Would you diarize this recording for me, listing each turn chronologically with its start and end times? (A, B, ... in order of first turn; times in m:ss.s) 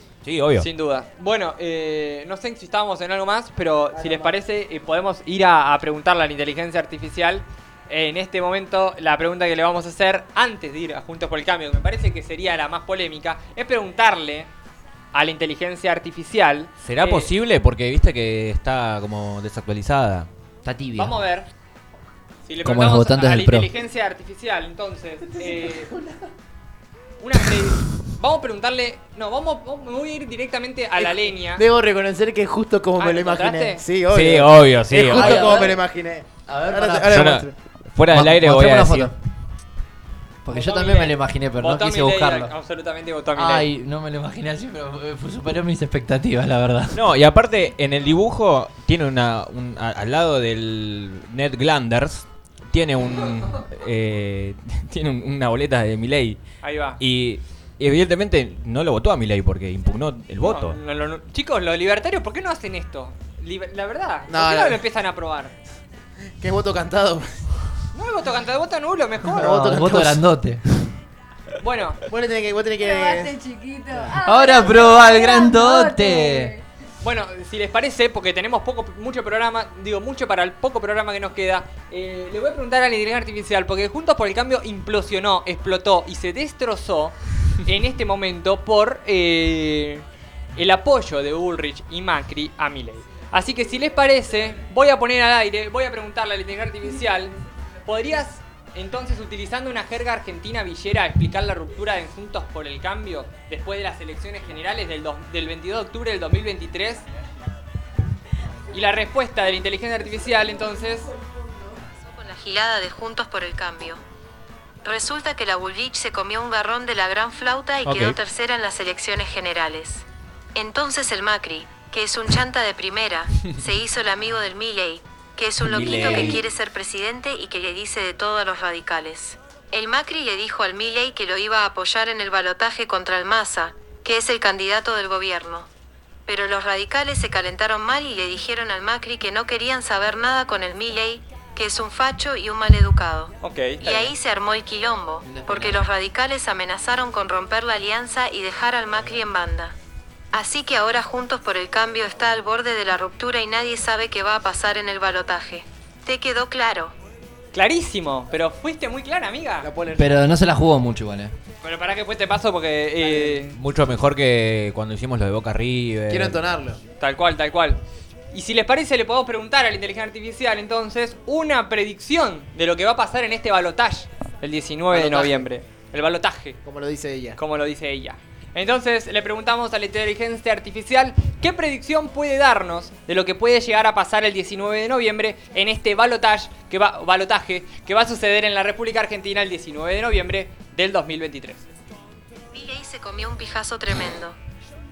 0:00.2-0:00.7 A
0:00.6-0:14.5 B
0:03.9-0:04.3 C
0:15.1-0:17.3 B
0:16.8-0:20.3 A
0:20.6-0:21.2 D
0:21.0-0:21.5 B
0:22.5-0:25.9 B
0:22.6-0:23.7 D
0:27.2-0:31.6 B
0:31.0-0:37.5 C
0:33.0-0:33.8 B
0:34.1-0:35.6 A
0:35.1-0:35.8 D
0:36.5-0:37.2 D
0:37.1-0:39.1 A
0:38.1-0:39.1 D
0:40.4-0:42.5 D
0:40.5-0:43.7 B
0:43.4-0:47.0 D
0:46.9-0:56.4 A
0:56.6-0:57.0 B
0:57.0-1:00.8 A
1:00.4-1:05.5 B
1:04.3-1:04.8 C
1:06.4-1:07.3 C
1:07.9-1:09.6 B
1:09.4-1:10.2 C
1:09.4-1:10.6 D
1:11.6-1:12.0 B
1:12.1-1:13.4 C
1:12.8-1:16.6 E
1:14.2-1:16.5 D
1:17.0-1:30.0 B
1:30.6-1:37.4 B
1:37.9-1:47.0 B
1:48.7-1:51.1 B
1:52.0-1:54.0 F
1:54.8-2:15.7 F
1:57.8-1:58.2 A
2:05.6-2:06.4 A
2:16.3-2:29.7 F
2:23.4-2:24.2 B
2:25.2-2:25.8 D
2:30.3-2:36.9 F
2:37.5-2:39.7 B
2:39.6-2:40.3 C
2:40.0-2:41.3 D
2:41.6-2:43.6 B
2:43.0-2:43.5 C
2:43.5-2:46.4 A
2:46.1-2:46.8 C
2:47.0-2:47.8 B
2:48.3-2:56.6 B
2:54.9-2:55.4 C
2:56.6-2:57.4 C
2:57.4-3:11.6 B
3:12.5-3:14.4 F